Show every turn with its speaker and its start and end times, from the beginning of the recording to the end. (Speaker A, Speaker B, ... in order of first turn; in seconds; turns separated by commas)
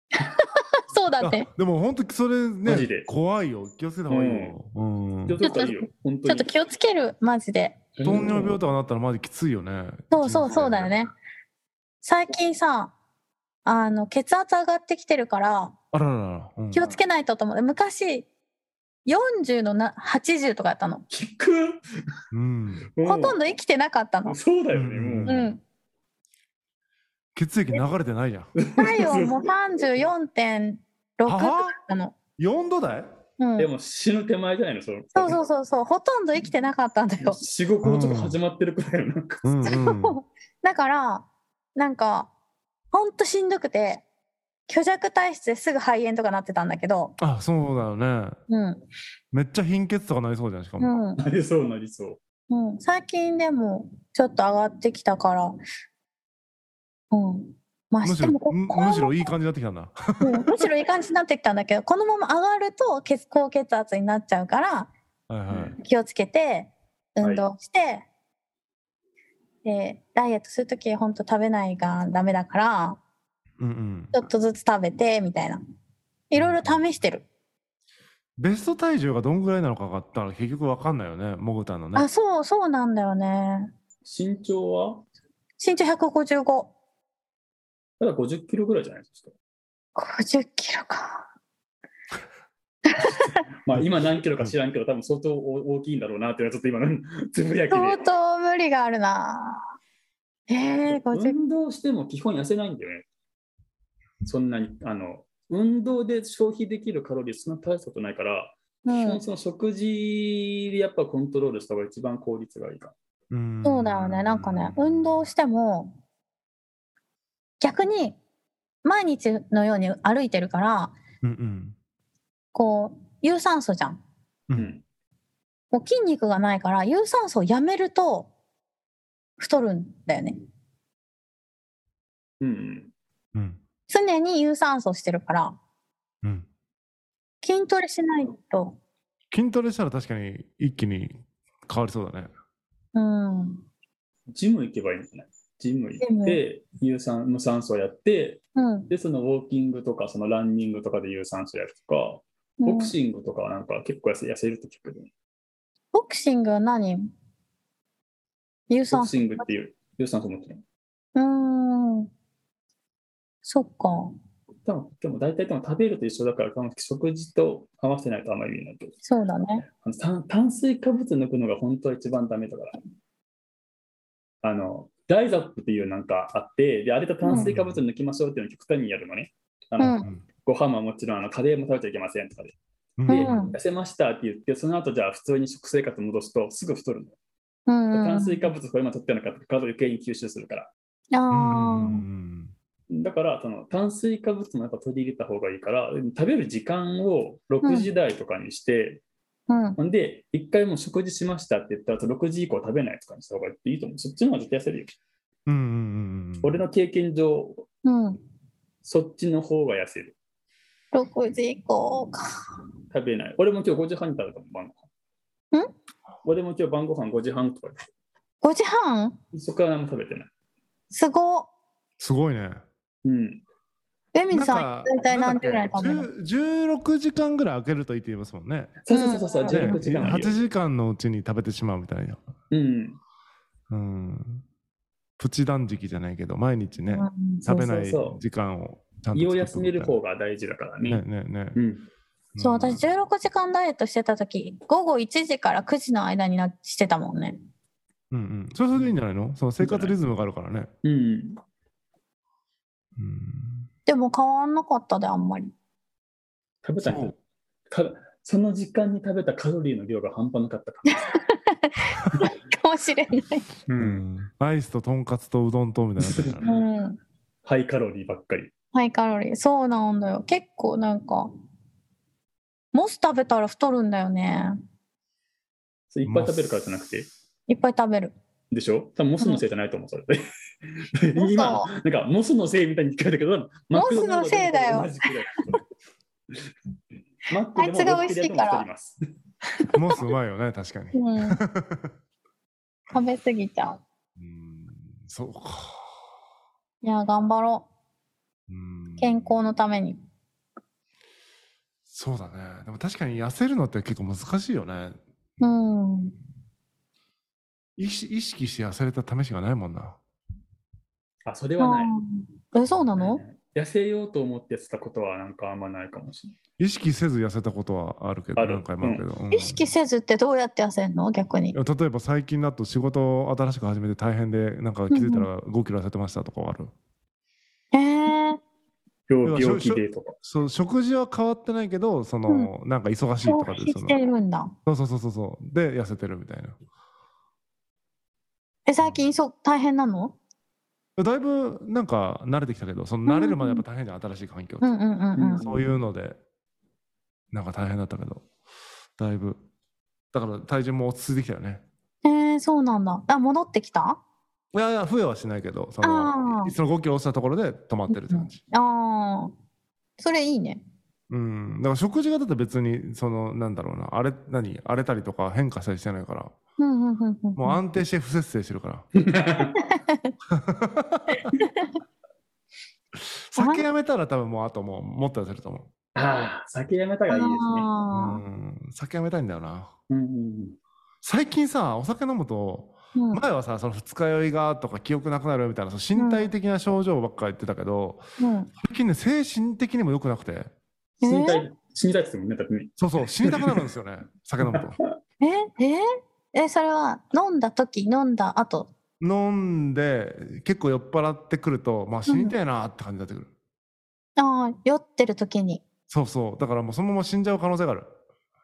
Speaker A: 0.2-1.5, Speaker B: 1.2-5.4, Speaker C: 2.6-3.1, Speaker C: 4.1-4.6, Speaker C: 5.3-6.5, Speaker A: 5.4-7.9, Speaker C: 8.0-8.6, Speaker B: 8.0-11.0, Speaker A: 10.1-11.1, Speaker A: 12.0-12.9, Speaker A: 13.6-15.7, Speaker B: 15.9-17.0, Speaker A: 16.7-18.3, Speaker A: 19.1-21.0, Speaker C: 21.1-21.8, Speaker B: 22.3-22.9, Speaker C: 22.9-23.4, Speaker A: 23.0-24.4, Speaker C: 24.2-25.5, Speaker B: 24.7-25.5, Speaker A: 25.3-25.6, Speaker B: 27.4-28.5, Speaker C: 28.6-29.5, Speaker A: 28.8-32.1, Speaker B: 31.3-31.8, Speaker B: 32.4-33.1, Speaker A: 33.4-33.7, Speaker C: 33.6-35.4, Speaker A: 35.1-37.4, Speaker C: 37.2-39.8, Speaker B: 37.8-38.4, Speaker B: 39.4-40.2, Speaker A: 39.6-42.3, Speaker A: 42.9-44.0, Speaker A: 44.7-47.1, Speaker B: 47.2-48.4, Speaker A: 48.5-48.8, Speaker B: 49.3-50.9, Speaker A: 50.8-51.2, Speaker C: 51.2-52.2, Speaker A: 52.5-55.5, Speaker A: 57.1-59.1, Speaker B: 58.0-60.7, Speaker A: 60.2-64.9, Speaker B: 65.3-65.8, Speaker C: 65.5-65.8, Speaker A: 65.8-68.0, Speaker A: 69.6-73.0, Speaker B: 73.6-74.3, Speaker A: 74.1-75.6, Speaker A: 76.3-77.2, Speaker B: 76.4-76.8, Speaker B: 78.4-82.1, Speaker A: 81.9-83.7, Speaker C: 84.0-85.0, Speaker A: 85.6-86.7, Speaker C: 88.0-89.3, Speaker A: 90.0-91.3, Speaker A: 92.9-93.3, Speaker C: 93.6-98.0, Speaker A: 97.7-99.7, Speaker A: 100.5-101.4, Speaker C: 100.9-103.0, Speaker C: 104.2-112.9, Speaker A: 108.8-109.2, Speaker B: 113.3-115.3, Speaker A: 113.6-115.9, Speaker A: 117.6-118.2, Speaker A: 118.8-120.9, Speaker B: 121.2-121.8, Speaker A: 122.5-124.0, Speaker C: 124.5-124.8, Speaker A: 125.7-128.3, Speaker A: 129.4-130.4, Speaker C: 132.4-132.9, Speaker B: 133.3-133.6, Speaker A: 133.9-135.6, Speaker A: 137.4-138.8, Speaker B: 139.3-142.3, Speaker A: 142.9-143.6, Speaker C: 144.3-155.1, Speaker A: 146.0-146.4, Speaker A: 148.6-148.9, Speaker A: 152.6-152.9, Speaker A: 155.9-157.1, Speaker A: 158.7-159.2, Speaker C: 158.9-160.6, Speaker A: 161.2-162.1, Speaker A: 163.4-164.2, Speaker C: 164.7-169.0, Speaker A: 169.1-169.6, Speaker C: 169.7-172.8, Speaker C: 174.4-182.6, Speaker A: 177.2-177.5, Speaker B: 177.3-177.8, Speaker A: 179.8-180.1, Speaker B: 183.0-183.5, Speaker C: 183.1-187.2, Speaker A: 183.1-183.5, Speaker A: 187.7-188.4, Speaker C: 187.9-190.7, Speaker A: 191.1-192.0, Speaker B: 191.3-192.5, Speaker C: 192.9-199.0, Speaker A: 197.6-197.9, Speaker A: 199.5-199.8, Speaker C: 199.8-204.9, Speaker B: 205.5-206.6, Speaker C: 206.4-207.6, Speaker A: 207.8-208.2, Speaker C: 208.8-210.1, Speaker A: 210.9-212.2, Speaker C: 212.9-214.8, Speaker C: 216.2-217.9, Speaker A: 218.4-219.2, Speaker C: 219.3-220.3, Speaker A: 220.9-221.5, Speaker B: 222.0-222.6, Speaker C: 223.0-223.4, Speaker A: 224.1-226.1, Speaker B: 224.3-228.8, Speaker C: 228.8-230.4, Speaker A: 228.9-229.8, Speaker B: 229.5-232.2, Speaker C: 232.5-233.0, Speaker B: 233.7-234.4, Speaker B: 235.2-240.0, Speaker A: 236.9-237.5, Speaker C: 237.4-238.2, Speaker C: 239.1-241.0, Speaker B: 240.9-241.6, Speaker C: 241.5-241.9, Speaker B: 242.3-242.9, Speaker A: 242.4-247.4, Speaker B: 248.1-250.7, Speaker C: 249.6-249.9, Speaker C: 250.8-251.4, Speaker B: 253.0-253.7, Speaker A: 253.9-255.5, Speaker C: 256.6-257.1, Speaker B: 256.8-257.1, Speaker C: 257.7-261.0, Speaker A: 260.9-263.5, Speaker C: 263.7-264.0, Speaker B: 263.8-266.6, Speaker C: 266.0-266.4, Speaker A: 266.4-267.0, Speaker C: 267.4-268.5, Speaker A: 268.7-271.3, Speaker A: 272.7-274.6, Speaker C: 275.9-277.1, Speaker B: 276.1-276.6, Speaker A: 277.5-278.1, Speaker C: 278.5-285.6, Speaker A: 281.1-281.7, Speaker A: 283.7-285.1, Speaker C: 287.3-289.0, Speaker A: 287.5-288.6, Speaker B: 289.7-291.9, Speaker A: 290.9-291.4, Speaker A: 292.9-293.8, Speaker B: 294.2-296.0, Speaker A: 296.8-297.7, Speaker B: 298.5-299.4, Speaker A: 299.0-300.0, Speaker B: 301.9-305.0, Speaker A: 305.4-306.1, Speaker B: 307.8-310.0, Speaker C: 311.2-311.9, Speaker A: 311.6-313.2, Speaker C: 312.9-316.4, Speaker B: 316.6-319.6, Speaker C: 318.4-319.0, Speaker A: 319.3-321.6, Speaker B: 321.5-326.7, Speaker A: 324.9-325.3, Speaker A: 327.7-328.4, Speaker C: 329.1-330.1, Speaker B: 329.2-333.9, Speaker A: 333.2-334.5, Speaker B: 334.6-336.6, Speaker A: 338.7-340.1, Speaker B: 341.0-344.7, Speaker A: 343.1-343.6, Speaker A: 344.6-345.4, Speaker C: 345.1-345.7, Speaker B: 345.4-346.2, Speaker B: 347.3-348.2, Speaker B: 349.0-349.4, Speaker B: 350.1-351.6, Speaker A: 352.0-354.0, Speaker B: 354.5-358.4, Speaker A: 355.8-356.5, Speaker A: 357.9-359.3, Speaker A: 360.0-360.6, Speaker B: 361.1-366.3, Speaker A: 366.6-367.6, Speaker B: 367.4-368.9, Speaker C: 368.9-369.6, Speaker A: 369.6-370.1, Speaker B: 370.3-371.3, Speaker A: 371.4-371.7, Speaker B: 372.9-375.7, Speaker A: 373.4-373.6, Speaker C: 375.9-377.7, Speaker A: 377.1-378.2, Speaker B: 377.9-379.7, Speaker C: 379.9-380.6, Speaker B: 381.0-388.0, Speaker A: 382.9-383.2, Speaker A: 385.9-386.3, Speaker A: 388.2-388.5, Speaker B: 388.6-390.5, Speaker A: 391.0-391.4, Speaker C: 391.0-393.6, Speaker B: 392.8-394.8, Speaker C: 394.4-394.9, Speaker A: 395.2-398.7, Speaker B: 399.0-403.3, Speaker A: 402.1-402.3, Speaker A: 404.2-405.6, Speaker B: 405.9-407.9